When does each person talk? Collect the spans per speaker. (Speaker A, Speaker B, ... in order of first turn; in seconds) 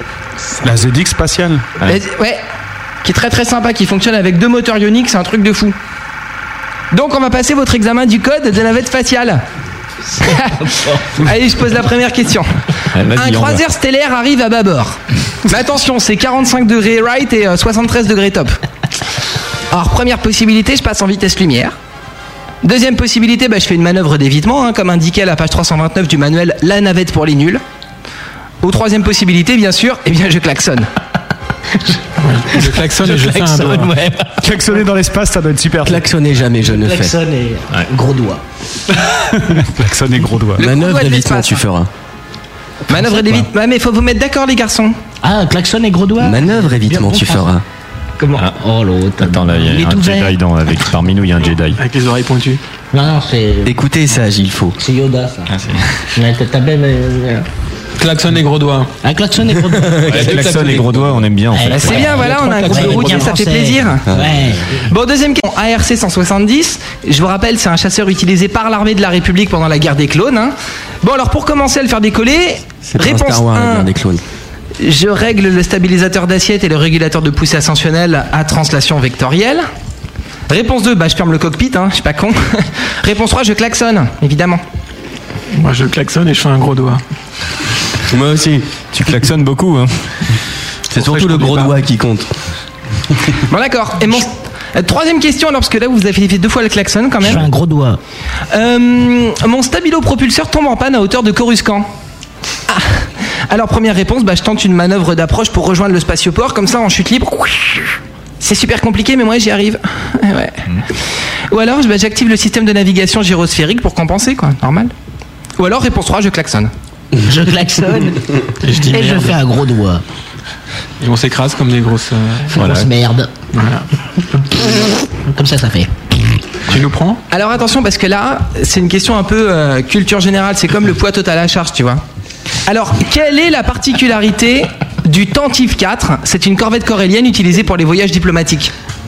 Speaker A: 0.6-1.7, 34.4-36.1, 38.9-40.7
Speaker B: 1.9-2.4, 3.0-5.8, 6.9-9.4, 10.2-12.6, 13.1-18.6, 19.7-21.8, 22.6-27.6, 28.6-30.9, 40.6-41.7, 42.9-45.0, 61.7-64.0, 64.9-73.9, 74.8-79.7, 80.5-84.6, 93.5-97.5, 98.5-101.9, 102.7-110.7, 111.5-114.9, 115.6-116.7, 127.3-132.0, 132.7-138.7
Speaker C: 10.7-10.9, 32.5-34.5, 36.6-38.4, 42.9-43.5, 45.2-47.5, 48.2-50.4, 52.9-53.8, 54.8-55.5, 56.1-57.5, 59.0-60.2, 61.5-64.9, 97.2-98.0, 117.2-120.0, 122.5-123.3, 125.3-125.9
Speaker D: 12.9-13.6, 49.2-51.8, 55.5-55.9, 60.1-62.0, 88.9-90.2, 122.6-122.9
Speaker E: 32.2-33.9, 51.7-52.6, 58.0-58.9, 60.1-61.2, 61.8-63.3, 85.5-87.0, 91.0-91.8, 118.6-119.4, 121.0-122.5, 123.5-123.9, 126.7-127.2
Speaker F: 35.9-37.1, 40.6-41.9, 46.2-47.6, 53.6-54.8, 59.7-60.5, 64.1-64.6, 72.9-74.2, 88.1-88.7, 90.9-92.3